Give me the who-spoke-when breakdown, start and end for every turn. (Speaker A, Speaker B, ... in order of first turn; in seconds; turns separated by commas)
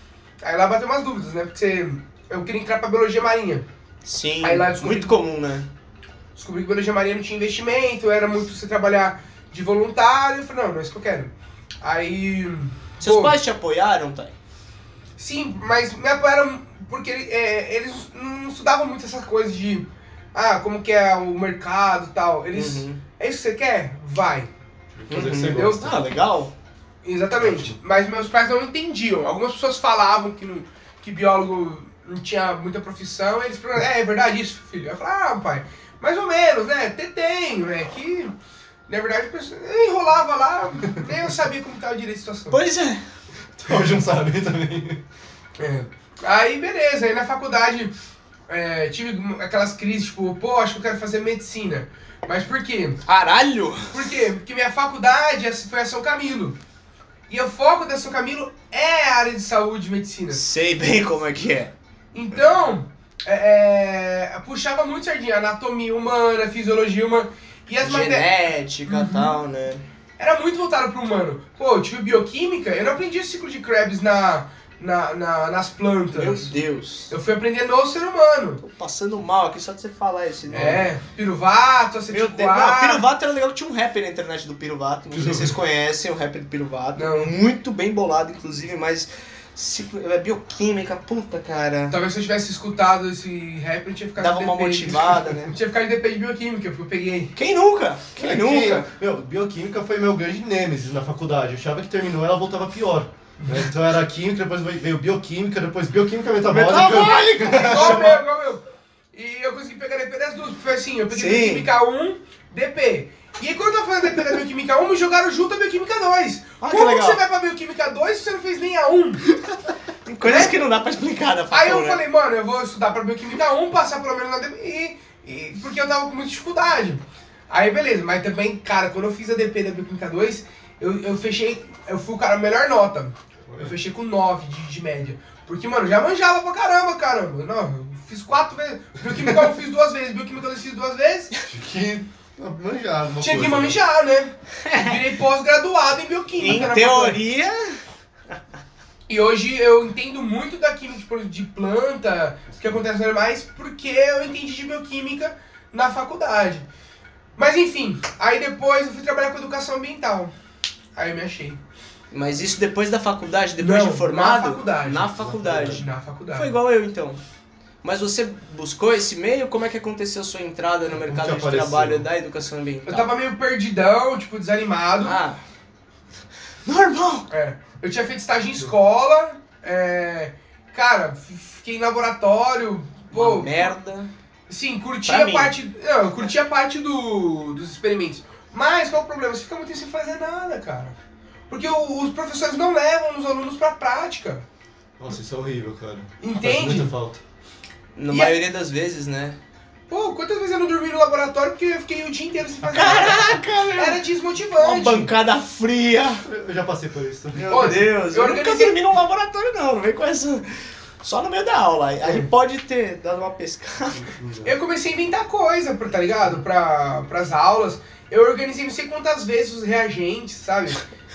Speaker A: 0.4-3.6, Speaker B: 4.0-5.7, Speaker A: 4.4-5.1, Speaker A: 6.3-13.3, Speaker B: 13.0-14.3, Speaker A: 15.2-24.5, Speaker B: 22.5-23.0, Speaker C: 25.0-26.0, Speaker B: 25.1-26.5, Speaker A: 25.3-25.9, Speaker A: 27.0-38.3, Speaker C: 27.4-27.8, Speaker A: 38.9-42.6, Speaker B: 42.5-43.0, Speaker C: 43.6-45.0, Speaker A: 45.6-47.9, Speaker A: 48.5-53.0, Speaker B: 53.0-54.0, Speaker A: 53.9-56.6, Speaker A: 57.3-60.4, Speaker B: 60.3-61.7, Speaker A: 62.1-68.3, Speaker B: 67.8-69.8, Speaker A: 68.8-69.3, Speaker A: 70.2-76.5, Speaker B: 76.1-77.1, Speaker A: 77.1-78.6, Speaker B: 78.6-80.9, Speaker C: 80.5-80.9, Speaker A: 80.5-83.0, Speaker B: 82.1-92.0, Speaker C: 85.1-85.5, Speaker A: 87.0-87.3, Speaker A: 91.9-97.3, Speaker B: 94.2-95.5, Speaker B: 97.3-98.8, Speaker C: 98.2-108.1, Speaker A: 103.4-103.7, Speaker B: 106.4-108.2, Speaker A: 107.1-119.2, Speaker B: 111.1-111.7, Speaker B: 116.6-117.2, Speaker B: 120.0-122.0, Speaker A: 120.2-120.5, Speaker A: 121.5-141.3, Speaker C: 133.5-133.7, Speaker C: 141.5-143.8, Speaker A: 143.2-147.2, Speaker B: 144.6-145.0, Speaker B: 146.4-147.8, Speaker A: 149.1-156.6, Speaker A: 157.3-160.3, Speaker A: 160.9-161.6, Speaker B: 162.1-167.2, Speaker A: 163.6-166.5, Speaker C: 165.0-165.8, Speaker B: 167.8-173.1, Speaker C: 170.9-172.1, Speaker A: 172.8-175.2, Speaker B: 175.0-175.4, Speaker B: 176.6-177.3, Speaker A: 177.3-183.7, Speaker B: 183.1-184.1, Speaker A: 184.5-190.9, Speaker B: 185.1-185.5, Speaker A: 191.5-194.4, Speaker C: 195.0-197.2, Speaker A: 196.2-196.9, Speaker B: 197.9-199.4, Speaker A: 199.9-205.1, Speaker B: 202.7-204.0, Speaker B: 204.6-206.2, Speaker C: 206.2-207.7, Speaker B: 207.3-214.1, Speaker A: 207.5-208.8, Speaker A: 212.0-212.3, Speaker C: 214.0-214.5, Speaker A: 214.4-220.8